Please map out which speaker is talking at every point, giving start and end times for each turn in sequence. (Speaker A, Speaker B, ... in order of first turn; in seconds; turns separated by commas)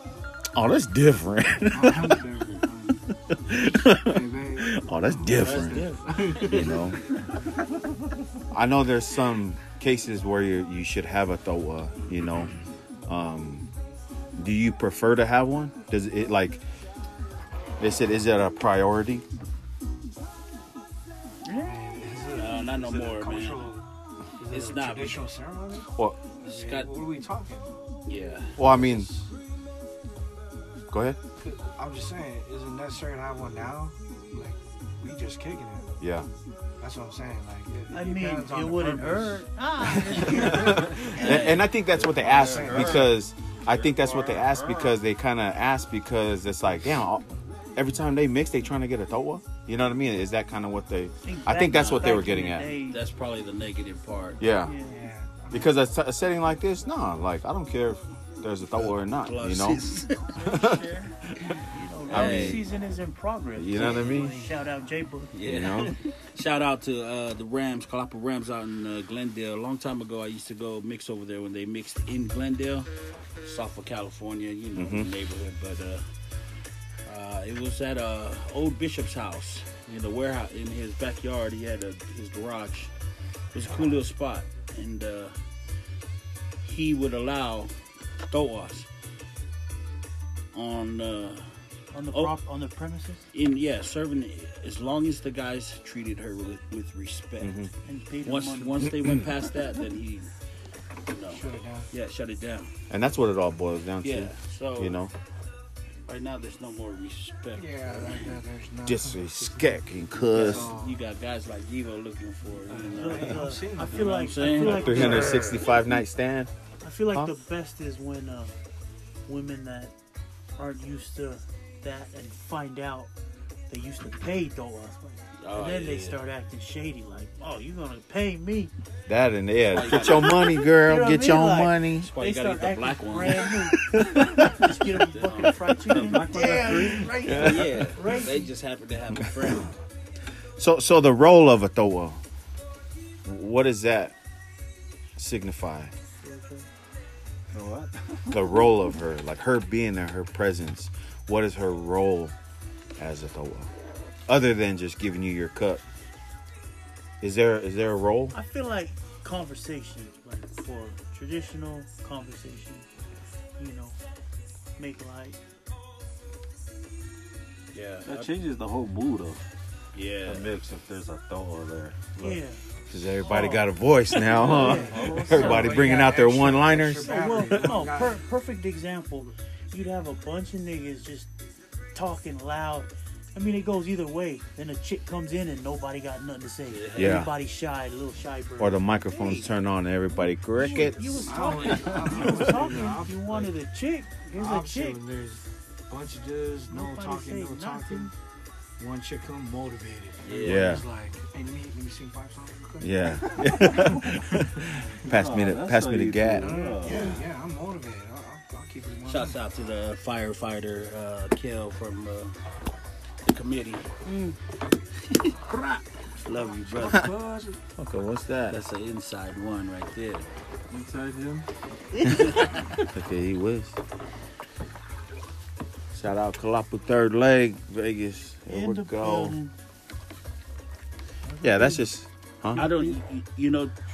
Speaker A: 0.5-2.3, Speaker B: 1.7-3.0, Speaker A: 3.3-7.0, Speaker B: 3.9-7.0, Speaker C: 5.3-6.7, Speaker A: 8.5-12.5, Speaker A: 13.1-13.7, Speaker A: 14.3-16.6, Speaker A: 17.8-19.2, Speaker D: 21.4-21.8, Speaker B: 21.5-23.9, Speaker C: 22.3-23.7, Speaker B: 24.4-27.8, Speaker C: 24.4-25.3, Speaker A: 25.9-26.2, Speaker C: 26.4-26.9, Speaker C: 28.1-29.3, Speaker A: 28.6-29.1, Speaker A: 30.9-31.2, Speaker B: 31.4-35.9, Speaker A: 36.0-36.3, Speaker B: 36.8-39.4, Speaker D: 37.9-41.1, Speaker B: 40.2-40.8, Speaker C: 40.2-43.2, Speaker A: 40.4-52.7, Speaker B: 42.3-43.1, Speaker C: 43.7-44.9, Speaker D: 51.2-53.0, Speaker C: 52.8-54.4, Speaker A: 54.4-54.7, Speaker D: 54.6-55.0, Speaker B: 54.8-55.8, Speaker A: 55.5-59.9, Speaker C: 58.8-62.6, Speaker A: 60.4-60.8, Speaker D: 61.7-65.4, Speaker A: 62.1-62.7, Speaker A: 63.5-64.4, Speaker B: 64.0-64.3, Speaker C: 65.3-72.9, Speaker A: 65.4-66.0, Speaker C: 73.4-76.0, Speaker A: 74.7-75.1, Speaker C: 77.0-82.9, Speaker C: 83.5-85.3, Speaker C: 86.6-88.9, Speaker C: 90.5-91.5, Speaker D: 91.9-93.3, Speaker C: 93.3-97.7, Speaker A: 97.4-97.7, Speaker D: 97.8-98.9, Speaker C: 98.2-100.3, Speaker C: 101.0-102.7, Speaker B: 101.3-101.9, Speaker A: 102.9-105.1, Speaker C: 104.0-105.0, Speaker C: 106.0-108.3, Speaker B: 107.5-111.0, Speaker A: 108.8-110.7, Speaker C: 110.3-115.4, Speaker B: 112.7-115.8, Speaker D: 112.9-115.6, Speaker A: 114.6-116.5, Speaker D: 116.8-118.5, Speaker D: 119.3-119.9, Speaker D: 120.6-123.1, Speaker D: 123.7-128.7, Speaker C: 125.4-126.2, Speaker A: 129.1-132.1, Speaker C: 129.7-130.5, Speaker D: 130.1-138.5, Speaker C: 132.0-133.6, Speaker A: 133.9-134.7, Speaker C: 135.0-139.7, Speaker E: 135.9-137.6, Speaker A: 136.7-137.9, Speaker A: 140.6-142.2, Speaker A: 143.2-144.1, Speaker A: 145.2-145.9, Speaker D: 146.2-146.7, Speaker E: 147.5-148.4, Speaker A: 148.3-152.3, Speaker A: 153.0-153.7, Speaker A: 154.3-155.8, Speaker A: 157.2-158.3, Speaker D: 158.3-162.9, Speaker D: 163.6-164.0, Speaker D: 164.8-165.4, Speaker C: 167.7-168.3, Speaker E: 168.0-169.4, Speaker C: 169.9-170.5, Speaker E: 170.2-172.4, Speaker D: 172.2-172.6, Speaker A: 172.9-177.8, Speaker D: 173.2-176.0, Speaker B: 174.5-178.2, Speaker E: 174.5-175.8, Speaker D: 177.0-181.3, Speaker D: 181.9-188.8, Speaker C: 186.7-187.2, Speaker A: 186.9-187.3, Speaker A: 188.6-191.3, Speaker D: 190.6-195.0, Speaker B: 191.2-193.5, Speaker C: 191.6-192.0, Speaker B: 194.3-198.1, Speaker D: 196.7-198.1, Speaker B: 198.8-203.7, Speaker C: 200.2-200.8, Speaker A: 200.4-200.8, Speaker A: 202.8-206.6, Speaker E: 205.1-207.1, Speaker B: 206.3-209.4, Speaker D: 206.8-207.2, Speaker C: 209.1-212.3, Speaker C: 213.2-213.9, Speaker D: 214.0-214.3, Speaker C: 215.0-215.4, Speaker C: 216.2-217.2, Speaker E: 216.7-217.6, Speaker A: 217.8-218.6, Speaker C: 218.5-220.3, Speaker E: 220.7-221.5, Speaker C: 222.0-222.7, Speaker A: 222.9-223.8, Speaker A: 225.9-229.3, Speaker D: 228.5-229.5, Speaker E: 231.2-231.9, Speaker A: 231.4-232.7, Speaker C: 232.5-233.7, Speaker E: 232.6-232.9